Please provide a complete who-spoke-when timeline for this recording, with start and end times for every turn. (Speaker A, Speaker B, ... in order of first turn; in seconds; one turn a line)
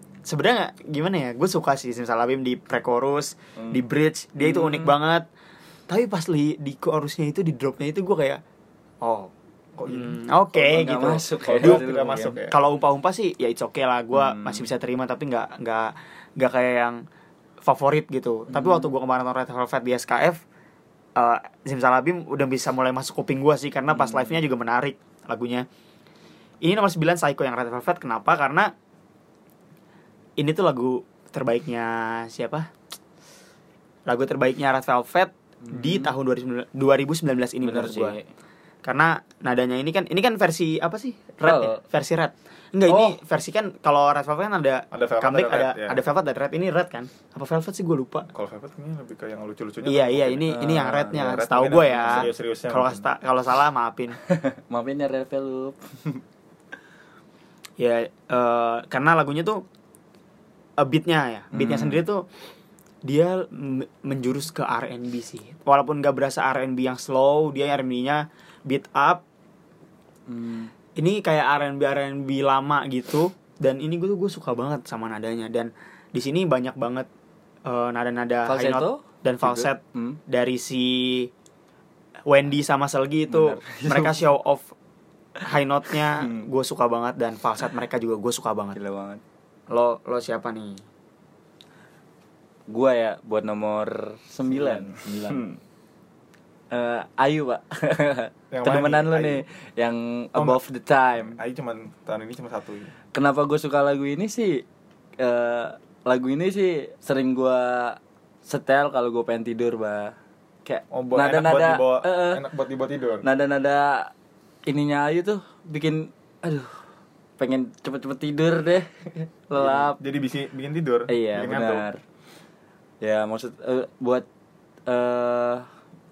Speaker A: 0.2-5.2
Speaker B: 4.4-4.9
Speaker A: 5.9-8.4
Speaker A: 9.0-9.3
Speaker C: 9.8-10.1
Speaker A: 9.8-17.0
Speaker B: 10.5-12.4
Speaker C: 11.4-12.5
Speaker A: 17.6-20.4
Speaker B: 18.5-18.9
Speaker A: 21.1-25.6
Speaker B: 24.0-24.3
Speaker A: 26.6-28.7
Speaker A: 30.4-32.7
Speaker A: 34.0-38.1
Speaker B: 35.7-36.1
Speaker B: 37.6-38.2
Speaker A: 38.8-48.3
Speaker B: 41.4-41.8
Speaker B: 42.9-43.1
Speaker C: 44.9-46.0
Speaker C: 48.3-53.0
Speaker A: 49.8-54.2
Speaker B: 50.5-51.2
Speaker B: 54.2-56.2
Speaker A: 57.8-59.6
Speaker A: 60.8-62.2
Speaker B: 61.5-62.0
Speaker A: 63.0-69.2
Speaker B: 70.3-70.7
Speaker A: 70.9-77.1
Speaker A: 77.6-81.3
Speaker B: 78.5-80.2
Speaker A: 82.3-84.7
Speaker B: 83.3-84.2
Speaker A: 85.4-88.8
Speaker B: 86.1-86.4
Speaker B: 88.7-89.2
Speaker A: 89.7-90.8
Speaker B: 92.7-95.5
Speaker C: 94.5-95.4
Speaker B: 96.7-101.4
Speaker C: 98.5-99.4
Speaker C: 101.2-102.9
Speaker B: 103.1-104.6
Speaker B: 105.2-110.1
Speaker B: 110.6-112.4
Speaker C: 110.9-113.2
Speaker B: 113.2-114.1
Speaker B: 114.7-116.7
Speaker B: 117.4-118.9
Speaker B: 119.5-120.0
Speaker C: 119.5-121.9
Speaker B: 121.1-122.0
Speaker B: 123.0-124.2
Speaker B: 124.9-125.6